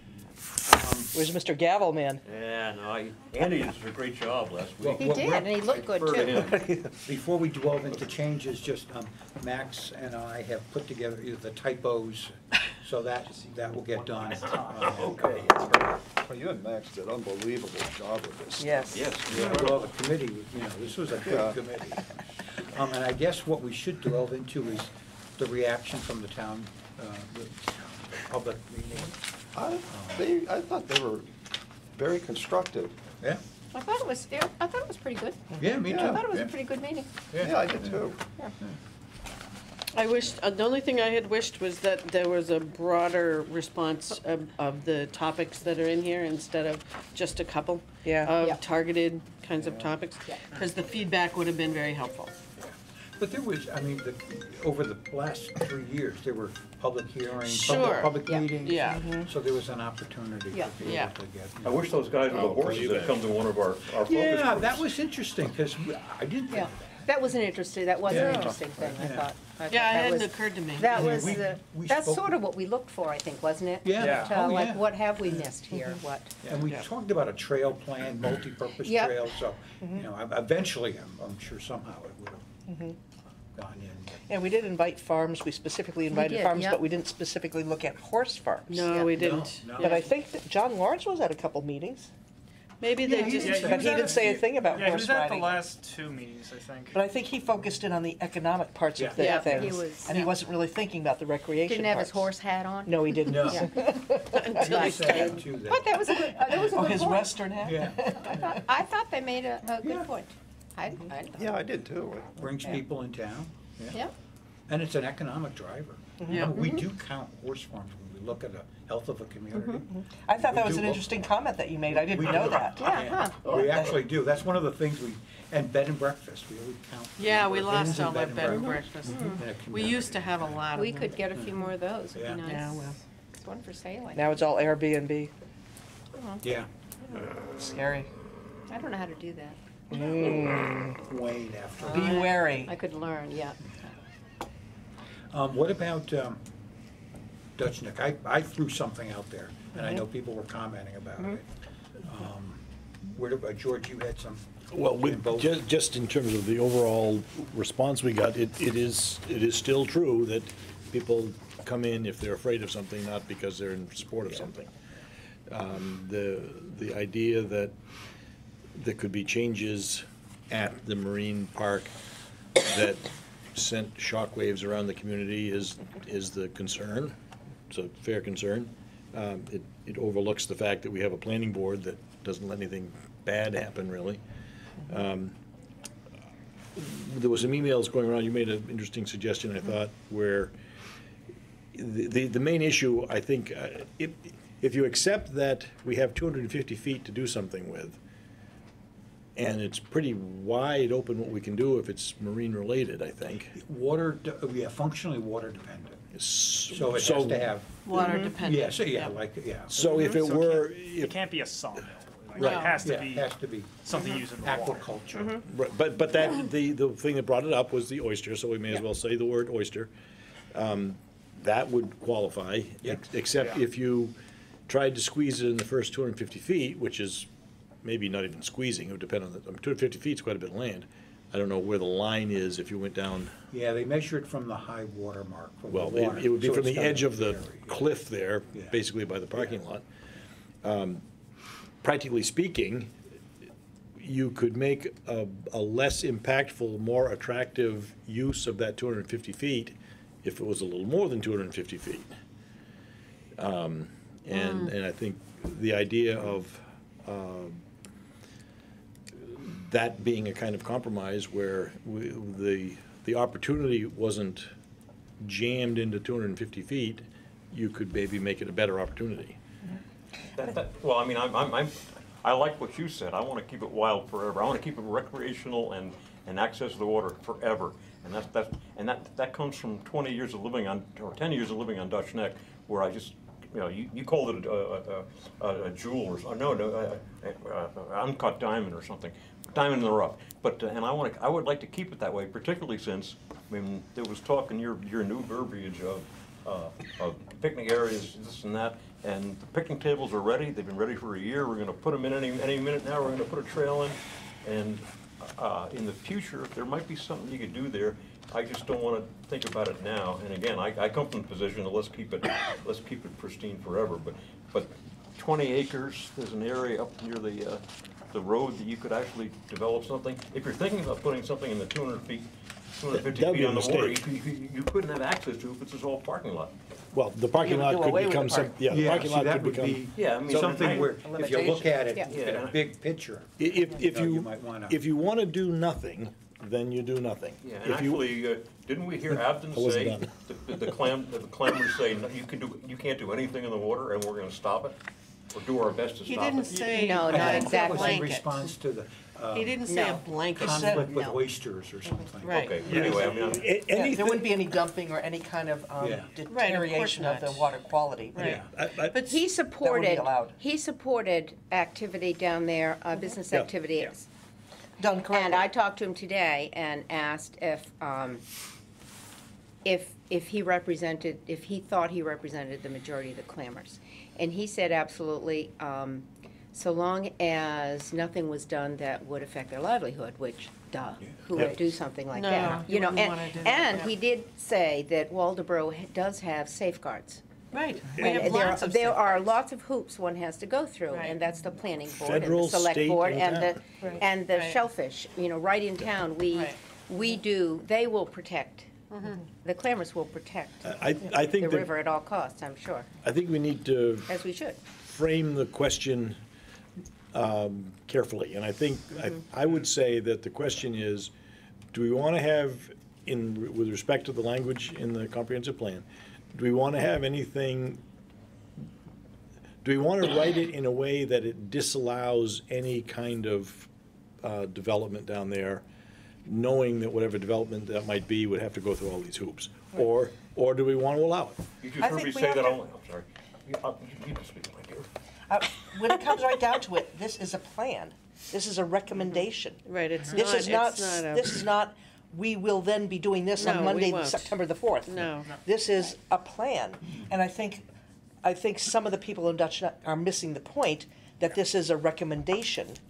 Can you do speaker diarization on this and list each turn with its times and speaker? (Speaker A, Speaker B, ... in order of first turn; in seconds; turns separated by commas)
Speaker A: 0.6-1.1, Speaker B: 1.1-2.2, Speaker C: 2.2-6.7, Speaker A: 4.8-5.5, Speaker D: 5.0-6.8, Speaker A: 6.2-15.7, Speaker C: 14.3-15.9, Speaker E: 14.4-14.9, Speaker F: 16.0-19.6, Speaker B: 18.6-19.1, Speaker C: 18.9-19.9, Speaker A: 19.3-29.2, Speaker F: 21.3-21.6, Speaker F: 29.6-31.3, Speaker A: 29.9-30.2, Speaker F: 31.9-33.0, Speaker D: 33.7-37.2, Speaker A: 35.6-36.5, Speaker F: 35.9-36.2, Speaker A: 37.3-38.8, Speaker F: 37.4-38.2, Speaker G: 39.9-52.3, Speaker B: 48.0-48.3, Speaker A: 49.6-49.9, Speaker A: 52.6-62.5, Speaker G: 57.4-59.0, Speaker D: 57.7-58.6, Speaker B: 59.0-59.3, Speaker G: 60.8-61.1, Speaker C: 61.6-64.9, Speaker H: 62.3-63.1, Speaker F: 62.3-63.0, Speaker A: 64.1-67.1, Speaker D: 66.5-76.4, Speaker A: 68.1-69.3, Speaker G: 69.7-71.3, Speaker A: 70.8-72.4, Speaker A: 73.8-75.5, Speaker E: 74.0-74.4, Speaker A: 76.4-82.5, Speaker G: 76.6-76.9, Speaker D: 78.8-79.3, Speaker B: 82.7-83.0, Speaker A: 83.5-84.2, Speaker B: 84.3-89.0, Speaker D: 86.1-86.8, Speaker G: 88.7-90.1, Speaker A: 89.0-90.0, Speaker B: 89.8-92.1, Speaker G: 92.8-94.0, Speaker A: 93.0-95.0, Speaker E: 93.2-97.0, Speaker B: 93.4-95.6, Speaker B: 96.9-102.3, Speaker A: 99.0-99.7, Speaker D: 99.2-100.1, Speaker G: 99.2-100.3, Speaker D: 101.7-103.9, Speaker B: 102.9-104.9, Speaker A: 103.3-103.9, Speaker G: 104.3-105.4, Speaker A: 104.6-106.1, Speaker D: 104.6-107.5, Speaker B: 106.7-108.6, Speaker A: 107.6-108.6, Speaker D: 108.3-111.6, Speaker A: 109.8-110.1, Speaker F: 111.4-112.5, Speaker A: 112.4-114.0, Speaker A: 114.7-121.1, Speaker B: 116.2-116.5, Speaker G: 116.3-116.7, Speaker D: 116.5-116.9, Speaker D: 119.5-119.8, Speaker B: 119.9-124.0, Speaker A: 121.9-130.6, Speaker D: 122.8-123.7, Speaker G: 127.2-131.2, Speaker D: 128.5-129.4, Speaker D: 130.7-134.4, Speaker A: 131.3-131.6, Speaker A: 132.2-132.4, Speaker G: 132.4-133.0, Speaker B: 134.2-135.3, Speaker D: 136.2-136.4, Speaker A: 136.4-136.7, Speaker B: 137.5-138.1, Speaker D: 138.7-139.6, Speaker B: 139.9-141.0, Speaker A: 140.1-142.3, Speaker B: 141.9-142.7, Speaker D: 142.0-143.6, Speaker A: 145.3-146.4, Speaker A: 147.6-151.4, Speaker A: 152.0-155.6, Speaker H: 154.7-164.7, Speaker H: 165.5-167.8, Speaker H: 168.7-171.9, Speaker H: 172.6-177.2, Speaker H: 177.7-184.2, Speaker H: 184.9-185.4, Speaker H: 186.8-190.6, Speaker H: 191.7-198.0, Speaker H: 199.4-203.6, Speaker A: 203.6-206.0, Speaker H: 206.1-207.5, Speaker A: 206.7-209.8, Speaker G: 207.8-209.2, Speaker D: 208.0-208.3, Speaker H: 209.7-211.2, Speaker E: 209.8-215.0, Speaker D: 209.9-210.2, Speaker H: 212.4-212.7, Speaker G: 212.4-212.8, Speaker A: 212.8-215.4, Speaker D: 215.2-215.4, Speaker H: 215.5-219.9, Speaker H: 220.5-224.2, Speaker H: 224.7-227.3, Speaker H: 227.8-233.4, Speaker A: 233.5-237.9, Speaker H: 235.7-239.9, Speaker H: 240.6-241.1, Speaker H: 241.8-242.9, Speaker H: 244.0-252.1, Speaker H: 253.4-257.6, Speaker G: 254.3-254.7, Speaker H: 259.1-264.5, Speaker H: 265.2-269.4, Speaker C: 270.4-326.5, Speaker H: 322.9-324.1, Speaker H: 326.9-329.8, Speaker B: 327.4-328.6, Speaker A: 328.7-334.8, Speaker C: 329.9-331.4, Speaker B: 330.8-331.8, Speaker C: 332.1-332.6, Speaker H: 333.4-338.1, Speaker C: 337.4-344.8, Speaker H: 339.1-340.1, Speaker C: 345.3-346.6, Speaker G: 346.1-348.3, Speaker E: 346.5-346.8, Speaker D: 346.7-348.4, Speaker A: 347.0-353.3, Speaker G: 349.3-351.0, Speaker D: 349.7-350.0, Speaker B: 350.4-351.0, Speaker D: 350.9-351.2, Speaker G: 352.2-352.6, Speaker C: 352.2-353.5, Speaker E: 352.6-353.1, Speaker H: 353.1-354.4, Speaker B: 353.7-358.4, Speaker A: 355.8-356.1, Speaker G: 356.3-357.5, Speaker G: 358.1-359.2, Speaker A: 358.2-358.5, Speaker H: 358.2-359.0, Speaker D: 358.9-364.1, Speaker B: 359.6-360.4, Speaker B: 364.8-365.5, Speaker D: 365.1-368.2, Speaker D: 369.6-387.2, Speaker H: 381.3-381.6, Speaker G: 382.1-383.9, Speaker G: 387.5-389.3, Speaker D: 387.9-402.9, Speaker E: 388.0-388.4, Speaker G: 390.9-391.2, Speaker H: 391.9-393.6, Speaker G: 394.3-394.6, Speaker G: 396.3-396.6, Speaker G: 398.9-399.2, Speaker H: 400.6-401.7, Speaker H: 403.0-404.1, Speaker D: 404.1-404.6, Speaker H: 404.8-406.2, Speaker H: 407.1-411.1, Speaker H: 411.7-417.8, Speaker H: 419.6-423.7, Speaker H: 424.2-425.6, Speaker H: 426.2-431.4, Speaker C: 431.6-434.9, Speaker B: 431.8-432.6, Speaker B: 435.3-447.6, Speaker G: 439.6-441.4, Speaker G: 443.4-445.3, Speaker B: 448.2-452.8